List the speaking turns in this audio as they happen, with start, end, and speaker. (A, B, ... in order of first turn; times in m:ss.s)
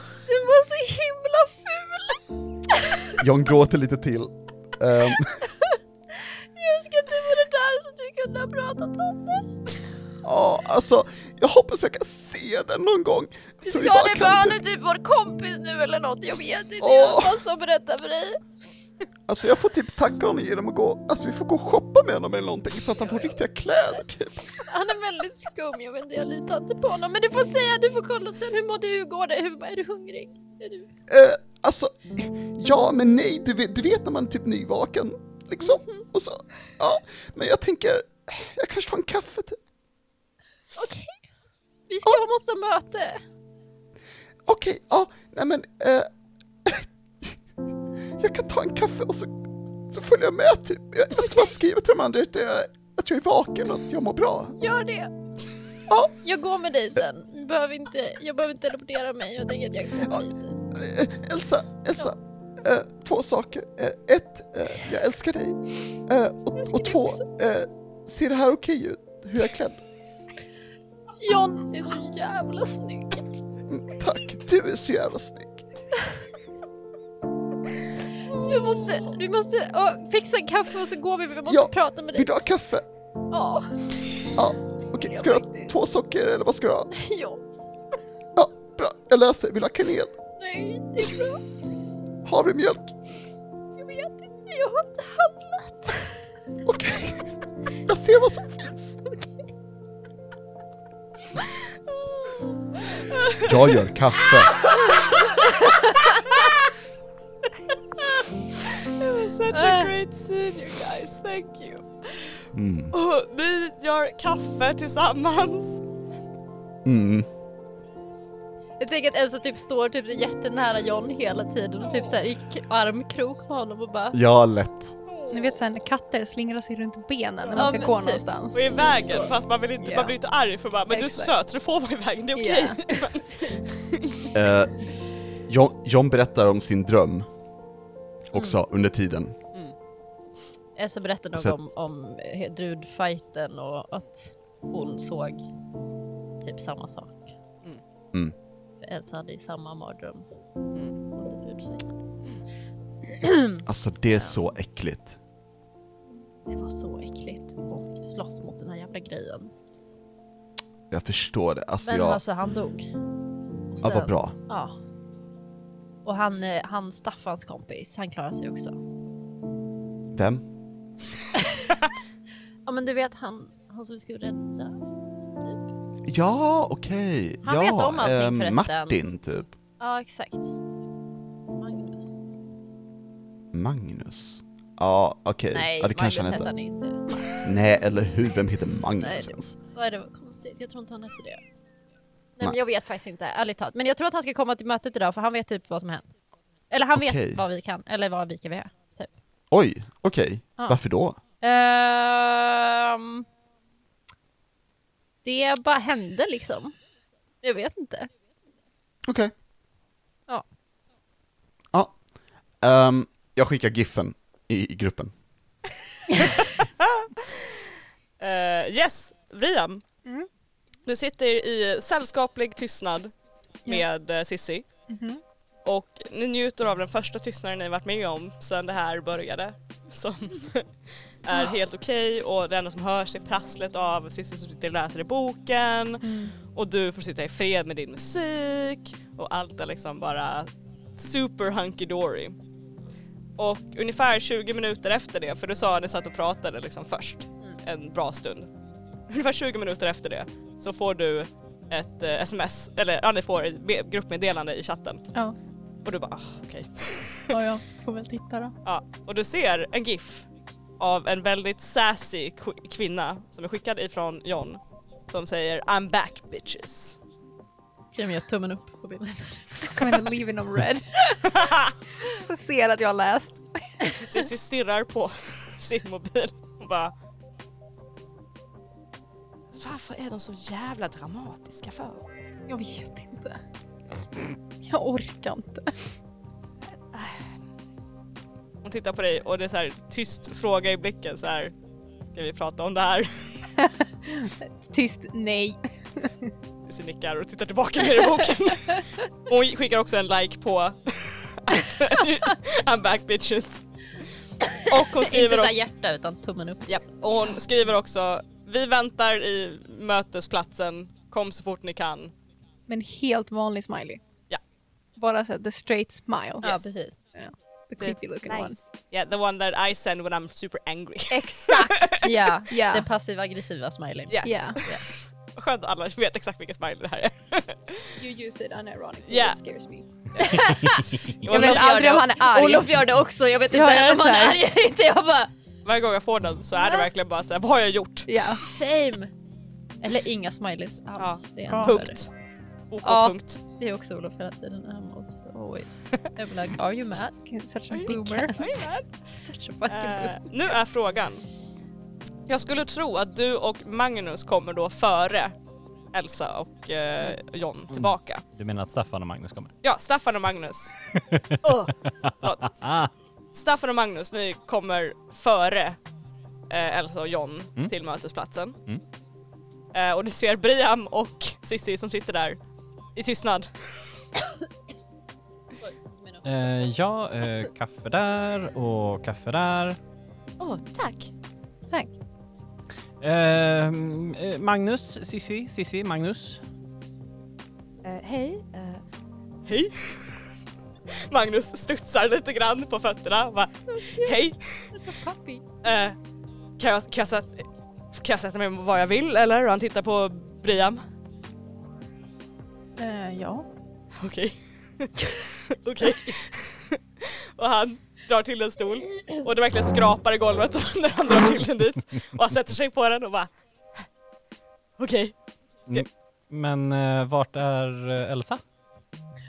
0:00.3-0:03.2 A
0:03.2-0:05.5 B
0:05.7-0:09.5 A
0:10.2-0:14.6 B
0:13.6-0:18.4 A
0:16.8-0:17.4 B
0:19.3-0:24.5 B
0:24.6-0:30.9 A
0:31.1-0:39.6 B
0:40.8-0:41.2 A
0:41.9-0:43.2 A
0:44.5-0:46.1 B
0:46.6-0:47.4 B
0:48.2-0:54.6 B
0:54.6-0:55.1 A
0:55.9-0:56.1 B
0:56.2-1:00.6 A
1:00.0-1:09.8 B
1:06.6-1:07.2 A
1:11.2-1:13.4 A
1:13.7-1:15.6 B
1:18.2-1:22.3 A
1:21.5-1:22.9 B
1:23.3-1:23.8 A
1:24.4-1:26.9 B
1:25.1-1:25.7 A
1:26.9-1:27.4 A
1:28.4-1:30.1 B
1:30.4-1:31.4 A
1:32.2-1:33.0 B
1:33.8-1:36.1 A
1:36.6-1:37.3 B
1:37.9-1:38.9 B
1:43.0-1:43.5 C
1:43.4-1:44.7 B
1:44.7-1:45.3 C
1:45.4-1:46.2 A
1:46.0-1:46.7 C
1:48.0-1:55.8 C
1:49.5-1:49.9 A
1:52.5-1:53.0 B
1:56.8-1:57.3 B
1:58.8-2:04.2 A
2:04.1-2:05.0 B
2:05.1-2:05.6 C
2:05.3-2:09.3 D
2:07.5-2:08.3 A
2:08.5-2:13.9 C
2:09.8-2:10.1 D
2:10.9-2:11.3 D
2:12.4-2:13.0 D
2:14.3-2:14.9 B
2:15.5-2:17.3 B
2:18.3-2:19.4 B
2:20.8-2:25.5 A
2:26.4-2:27.3 A
2:28.8-2:30.3 A
2:31.1-2:31.9 A
2:33.2-2:33.6 A
2:33.6-2:35.2 B
2:36.5-2:39.5 A
2:40.9-2:42.2 B
2:41.8-2:42.9 A
2:43.7-2:44.8 A
2:43.8-2:44.4 B
2:46.0-2:48.8 A
2:50.1-2:50.4 B
2:52.7-2:54.8 A
2:56.1-2:59.5 B
2:57.4-2:59.0 A
2:59.8-3:00.5 A
3:01.6-3:02.2 A
3:03.5-3:06.5 B
3:05.5-3:07.4 A
3:07.4-3:09.5 B
3:09.0-3:11.4 A
3:12.4-3:16.1 A
3:16.7-3:19.1 A
3:17.0-3:17.4 B
3:19.5-3:21.2 B
3:21.4-3:23.2 A
3:25.2-3:26.8 A
3:27.4-3:28.1 A
3:29.0-3:29.3 B
3:32.6-3:35.1 B
3:36.4-3:39.8 C
3:40.9-3:43.1 C
3:43.6-3:44.6 C
3:44.9-3:45.2 D
3:45.6-3:50.7 C
3:51.2-4:02.4 C
3:56.0-3:56.3 D
4:03.4-4:08.5 C
4:09.1-4:15.0 C
4:15.8-4:17.4 C
4:17.3-4:18.5 D
4:18.6-4:20.3 C
4:20.8-4:27.0 C
4:27.9-4:30.0 A
4:29.7-4:31.5 D
4:31.3-4:31.7 C
4:32.0-4:34.0 D
4:34.0-4:36.9 C
4:39.5-4:42.0 C
4:42.5-4:43.4 D
4:44.6-4:45.8 D
4:46.9-4:47.3 C
4:48.6-4:51.5 C
4:52.1-4:53.5 C
4:54.1-4:56.1 D
4:56.7-5:03.6 C
5:04.5-5:06.9 A
5:04.6-5:05.6 C
5:06.7-5:12.1 C
5:12.7-5:14.0 D
5:15.0-5:16.6 D
5:16.4-5:17.0 A
5:17.2-5:18.6 D
5:17.8-5:22.1 C
5:21.1-5:24.8 A
5:22.5-5:22.9 D
5:24.1-5:28.0 C
5:24.2-5:24.6 D
5:28.0-5:30.5 D
5:29.1-5:29.4 C
5:30.2-5:30.6 C
5:30.2-5:35.3 A
5:30.4-5:31.1 E
5:31.2-5:32.8 D
5:31.2-5:31.7 C
5:33.5-5:34.4 D
5:35.6-5:38.1 C
5:38.1-5:38.4 D
5:38.4-5:39.1 A
5:39.8-5:42.0 A
5:41.0-5:42.1 C
5:41.5-5:41.8 D
5:42.7-5:43.4 C
5:42.8-5:47.2 A
5:47.3-5:48.4 D
5:47.7-5:48.9 C
5:47.9-5:48.4 A
5:49.1-5:50.3 A
5:49.7-5:51.3 C
5:52.3-5:55.3 C
5:55.9-5:58.2 C
5:57.7-5:59.5 E
5:59.6-6:00.8 C
6:01.0-6:01.5 E
6:01.4-6:02.5 C
6:02.0-6:02.9 E
6:03.3-6:05.8 C
6:06.5-6:08.6 C
6:09.7-6:12.4 C
6:13.0-6:13.5 C
6:15.6-6:16.3 A
6:16.2-6:19.8 E
6:20.4-6:21.1 C
6:23.0-6:26.4 E
6:27.8-6:28.8 C
6:29.5-6:30.3 C
6:30.9-6:34.7 C
6:33.7-6:35.4 A
6:35.6-6:36.0 C
6:36.6-6:40.8 C
6:42.8-6:43.5 D
6:44.0-6:53.3 C
6:54.8-6:55.1 C
6:55.7-6:58.4 E